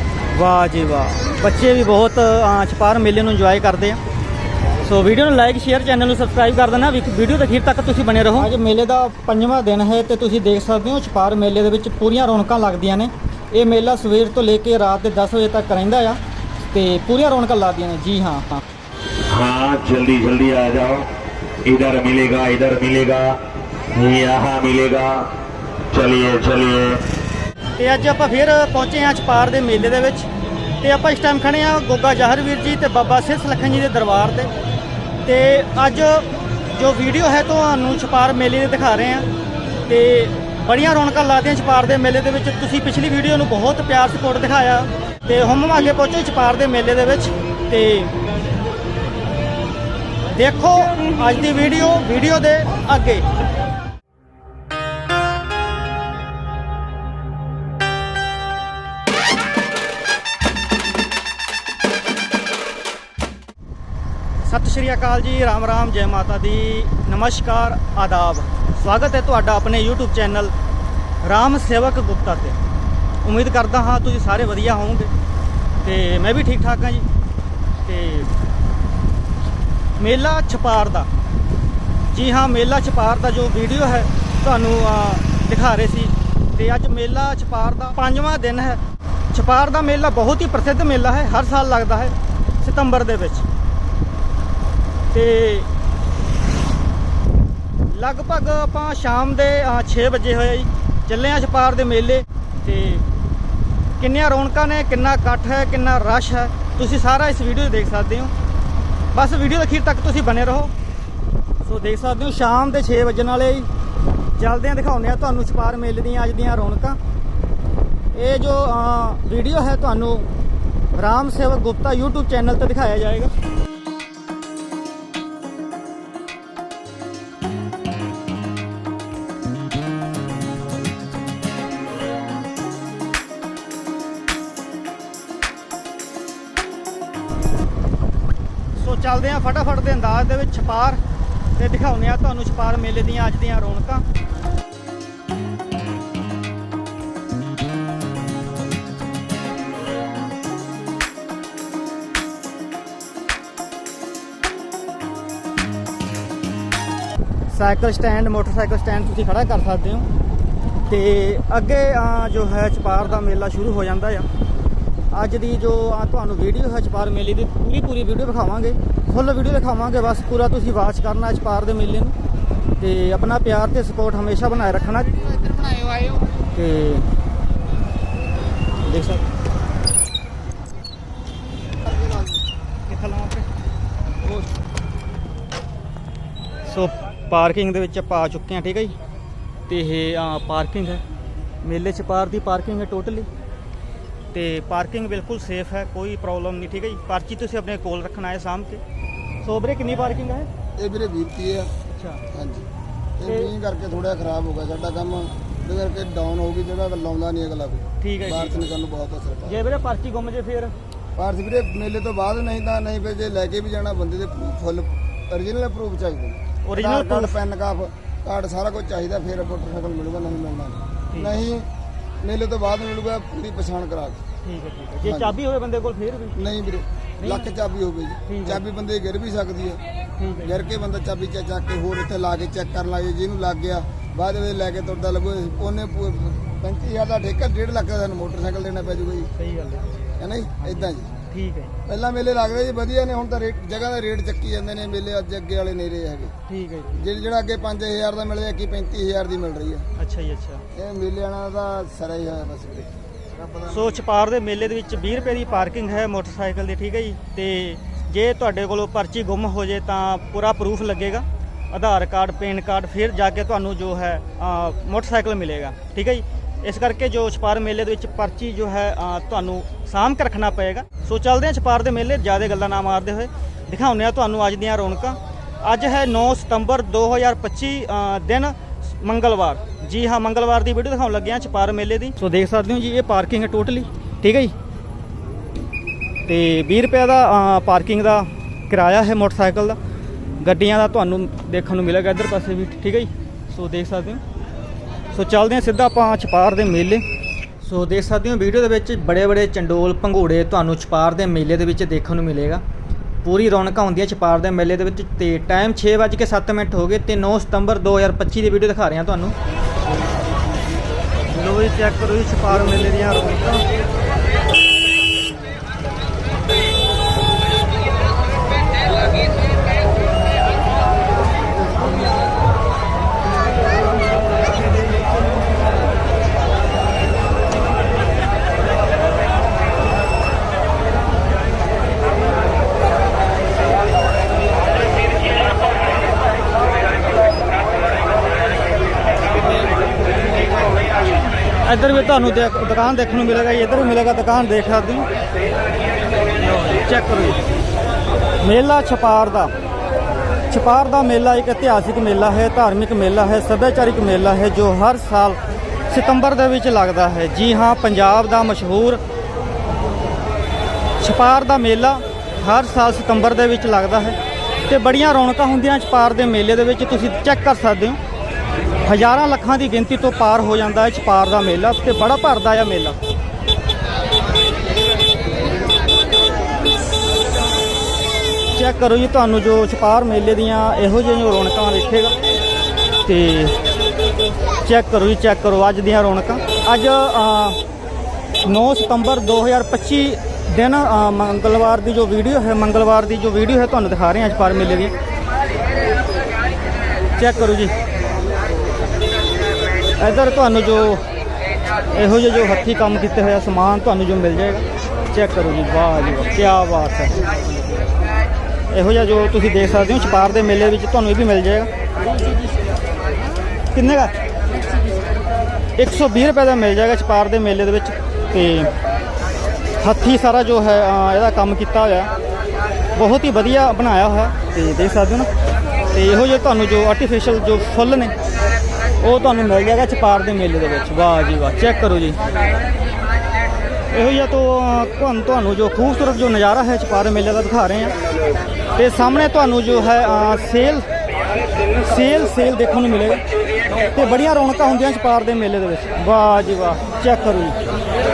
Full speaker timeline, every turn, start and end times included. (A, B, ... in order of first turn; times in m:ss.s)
0:00.3-0:04.0 A
0:04.8-0:18.6 A
0:19.3-0:21.0 B
0:21.6-0:23.4 B
0:23.9-0:25.3 B
0:25.9-0:27.0 B
0:27.8-0:30.3 A
0:30.8-0:34.5 A
0:35.2-0:39.3 A
0:39.9-0:48.1 A
0:50.3-0:53.2 A
1:04.4-1:10.5 A
1:11.2-1:12.6 A
1:13.2-1:15.1 A
1:15.8-1:17.0 A
1:17.8-1:18.3 A
1:20.0-1:21.1 A
1:22.1-1:28.8 A
1:29.3-1:33.4 A
1:35.1-1:35.7 A
1:37.9-1:43.0 A
1:44.0-1:48.3 A
1:49.1-1:50.7 A
1:51.6-1:53.7 A
1:54.4-1:57.0 A
1:58.1-2:00.3 A
2:00.9-2:03.3 A
2:18.8-2:21.0 A
2:21.6-2:24.0 A
2:37.5-2:40.1 A
2:40.9-2:44.3 A
2:45.1-2:52.1 A
2:52.8-2:55.2 A
2:56.5-2:57.0 A
2:58.8-2:59.2 A
3:02.9-3:03.5 A
3:06.7-3:08.9 A
3:09.7-3:11.0 A
3:11.6-3:13.3 A
3:14.3-3:18.8 A
3:19.4-3:20.5 A
3:20.8-3:21.7 C
3:21.9-3:22.2 A
3:22.3-3:22.7 C
3:23.2-3:29.6 C
3:23.2-3:23.5 A
3:28.0-3:28.7 A
3:29.4-3:30.7 A
3:31.2-3:41.7 C
3:36.6-3:37.4 A
3:41.1-3:41.4 A
3:42.2-3:44.2 C
3:44.4-3:46.4 A
3:45.0-3:45.4 C
3:46.3-3:49.8 C
3:47.2-3:47.5 A
3:48.2-3:48.6 A
3:50.2-3:50.5 A
3:50.4-3:59.3 C
3:59.4-3:59.9 A
4:00.2-4:01.1 C
4:00.6-4:01.7 A
4:01.8-4:06.3 C
4:06.5-4:07.0 A
4:07.0-4:09.8 C
4:10.0-4:10.6 A
4:10.7-4:13.8 C
4:13.7-4:44.5 A
4:46.3-4:49.8 A
4:50.4-4:54.2 A
4:55.1-4:57.0 A
4:57.6-5:02.6 A
5:03.2-5:09.3 A
5:11.3-5:13.6 A
5:41.6-5:45.0 A
5:46.5-5:47.4 A
5:48.4-5:49.5 A
5:50.5-5:55.4 A
5:55.9-5:59.0 A
6:01.0-6:04.2 A
6:04.7-6:08.0 A
6:08.8-6:13.0 A
6:18.5-6:22.1 A
6:23.0-6:23.6 A
6:24.6-6:27.6 A
6:28.4-6:34.9 A
6:37.2-6:37.7 A
6:40.0-6:41.0 A
6:41.9-6:47.3 A
6:48.7-6:51.7 A
6:53.7-6:54.1 A
6:55.8-6:58.7 A
6:59.8-7:02.1 A
7:03.0-7:05.3 A
7:05.9-7:08.1 A
7:09.0-7:12.2 A
7:13.9-7:17.9 A
7:18.8-7:20.8 A
7:21.8-7:23.2 A
7:23.9-7:27.6 A